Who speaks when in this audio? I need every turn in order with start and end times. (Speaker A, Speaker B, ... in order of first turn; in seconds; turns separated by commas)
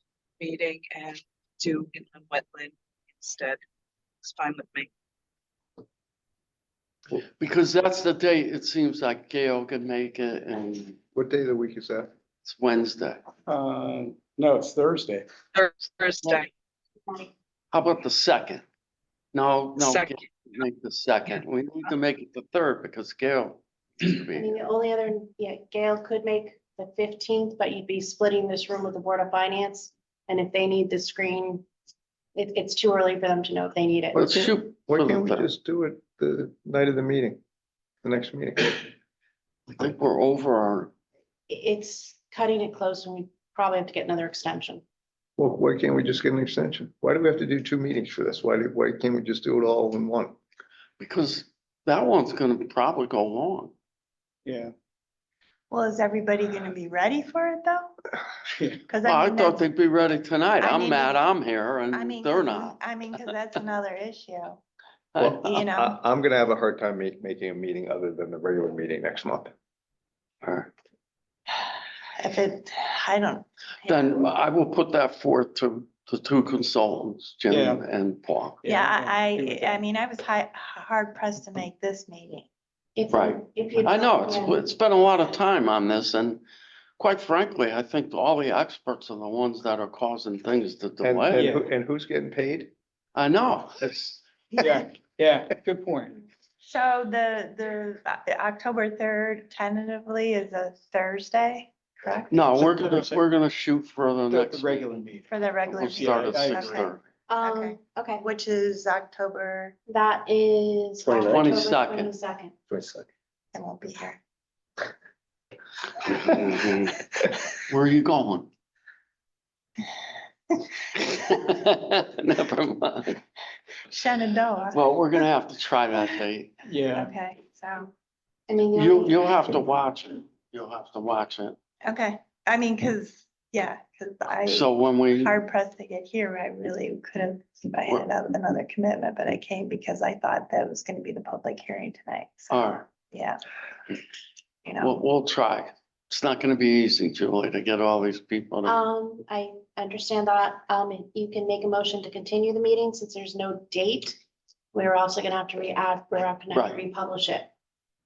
Speaker A: 0.4-3.6, Speaker A: 4.2-4.9, Speaker B: 7.1-11.0, Speaker C: 11.1-12.1, Speaker B: 12.4-13.2, Speaker D: 13.5-15.2, Speaker A: 15.5-16.5, Speaker B: 17.7-18.6, Speaker B: 19.3-24.7, Speaker A: 19.8-20.1, Speaker E: 24.3-31.6, Speaker E: 32.4-34.6, Speaker B: 34.1-35.5, Speaker C: 34.9-37.4, Speaker C: 38.0-38.9, Speaker B: 39.8-40.9, Speaker E: 41.5-44.8, Speaker C: 45.4-50.3, Speaker B: 51.0-53.7, Speaker D: 54.5-54.7, Speaker F: 55.7-57.9, Speaker F: 58.9-59.6, Speaker B: 59.0-63.3, Speaker F: 60.6-61.3, Speaker F: 61.9-64.6, Speaker B: 65.1-65.6, Speaker C: 65.2-69.5, Speaker F: 65.4-65.9, Speaker B: 70.4-70.7, Speaker F: 71.5-74.2, Speaker B: 73.8-78.6, Speaker D: 77.5-77.8, Speaker D: 78.6-79.8, Speaker F: 78.6-82.5, Speaker E: 83.0-84.6, Speaker B: 83.1-86.4, Speaker B: 87.0-91.5, Speaker C: 91.0-92.7, Speaker D: 91.3-91.7, Speaker B: 93.2-94.2, Speaker D: 94.6-96.2, Speaker F: 96.6-102.6, Speaker B: 102.3-104.9, Speaker D: 102.6-103.2, Speaker D: 104.3-106.8, Speaker F: 105.3-109.8, Speaker B: 105.7-107.0, Speaker E: 107.3-108.2, Speaker E: 109.9-112.6, Speaker B: 111.1-112.1, Speaker C: 112.7-113.0, Speaker F: 113.5-114.2, Speaker B: 116.0-117.0, Speaker B: 117.7-118.5, Speaker B: 121.0-123.2, Speaker F: 123.9-124.8, Speaker B: 124.7-126.5, Speaker D: 126.7-127.1, Speaker F: 126.9-127.9, Speaker E: 128.5-129.3, Speaker B: 128.7-131.6, Speaker F: 131.8-143.4, Speaker B: 134.5-135.4, Speaker B: 142.5-142.9, Speaker F: 144.7-144.9, Speaker B: 144.8-148.8, Speaker E: 148.7-154.2, Speaker E: 154.7-157.5, Speaker B: 156.5-156.8